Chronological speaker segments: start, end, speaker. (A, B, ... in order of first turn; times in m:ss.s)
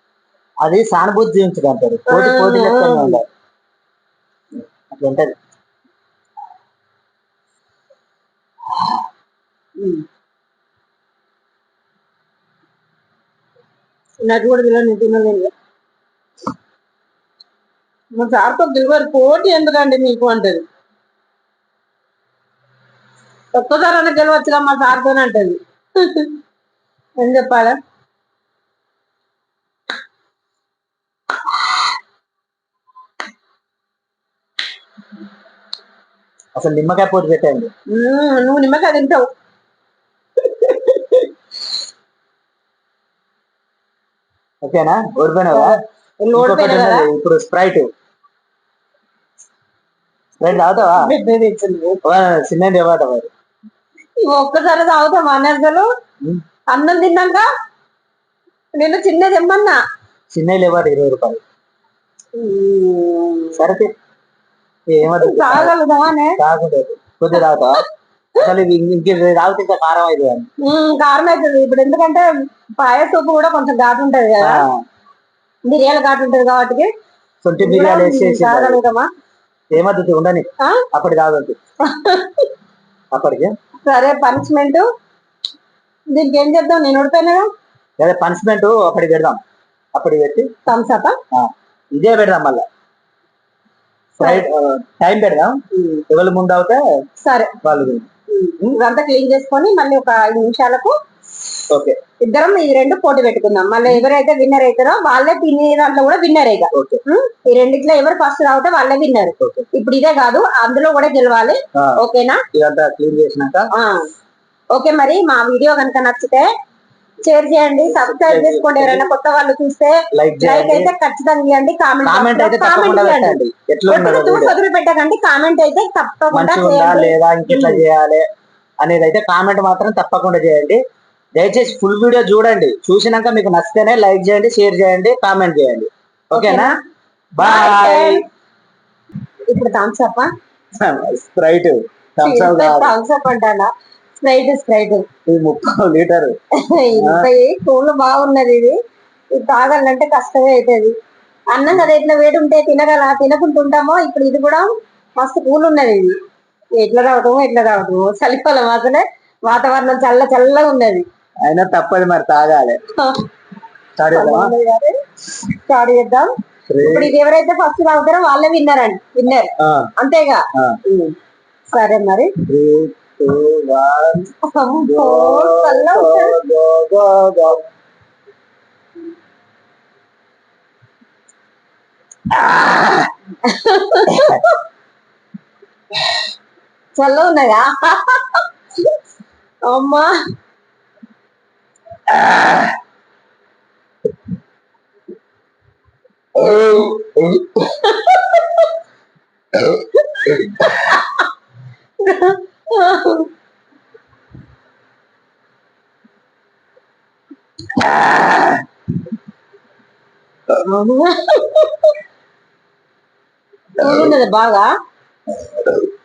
0:00.6-0:03.2 A
0:02.1-0:03.2 B
0:04.9-0:05.4 A
0:09.8-0:10.0 B
0:14.2-0:15.5 B
0:18.2-0:20.6 B
0:23.5-0:26.3 B
0:27.2-0:27.8 B
0:36.6-0:37.7 A
0:37.9-0:39.3 B
0:40.6-0:41.2 B
0:44.6-0:45.7 A
0:45.5-0:47.1 B
0:46.3-0:47.9 A
0:50.4-0:51.1 A
0:51.0-0:52.0 B
0:52.0-0:53.3 A
0:54.2-0:55.9 B
0:56.7-0:57.5 B
0:58.8-0:59.8 B
1:00.3-1:01.4 A
1:02.4-1:03.6 B
1:03.6-1:03.9 A
1:04.9-1:05.7 A
1:05.2-1:06.4 B
1:06.4-1:07.8 A
1:08.4-1:10.5 A
1:10.6-1:12.3 B
1:12.8-1:14.6 B
1:14.4-1:14.8 A
1:15.7-1:16.9 B
1:17.4-1:18.8 A
1:17.6-1:19.1 B
1:19.7-1:21.6 A
1:21.8-1:22.5 B
1:23.1-1:23.5 A
1:23.8-1:24.9 B
1:26.1-1:27.5 B
1:28.0-1:29.4 A
1:30.0-1:30.5 A
1:30.7-1:31.2 B
1:31.3-1:32.6 A
1:34.2-1:36.8 A
1:34.2-1:34.5 B
1:35.7-1:36.0 B
1:37.2-1:37.5 B
1:37.6-1:38.1 A
1:38.3-1:41.0 B
1:41.7-1:42.0 A
1:42.2-1:52.4 B
1:46.8-1:47.0 A
1:49.4-1:49.7 A
1:52.5-1:53.7 A
1:53.7-1:54.0 B
1:54.7-1:56.5 B
1:57.2-2:03.4 B
1:57.9-1:59.1 A
2:00.1-2:00.9 A
2:02.0-2:04.6 A
2:03.9-2:07.8 B
2:06.3-2:08.2 A
2:08.8-2:10.8 A
2:11.4-2:16.8 A
2:16.3-2:16.8 B
2:17.4-2:18.2 A
2:17.4-2:18.2 B
2:19.5-2:20.3 B
2:20.8-2:23.0 A
2:22.2-2:25.1 B
2:25.3-2:26.4 A
2:26.7-2:28.8 B
2:27.0-2:27.3 A
2:29.3-2:30.9 B
2:31.5-2:36.1 B
2:36.8-2:41.0 B
2:41.4-2:42.8 A
2:43.0-2:43.2 B
2:44.0-2:44.5 A
2:44.1-2:44.9 B
2:45.4-2:46.3 B
2:46.7-2:47.1 A
2:46.8-2:51.2 B
2:49.6-2:49.9 A
2:51.7-2:52.3 B
2:52.5-2:54.3 A
2:54.5-2:56.4 B
2:54.8-2:57.6 A
3:02.3-3:03.1 A
3:03.4-3:04.6 B
3:04.1-3:04.4 A
3:07.0-3:08.9 B
3:09.6-3:10.1 B
3:12.1-3:12.7 A
3:16.4-3:17.5 A
3:17.7-3:18.7 B
3:19.8-3:21.2 B
3:22.0-3:23.3 B
3:27.8-3:28.6 A
3:30.6-3:32.0 B
3:33.8-3:34.7 B
3:33.8-3:34.1 A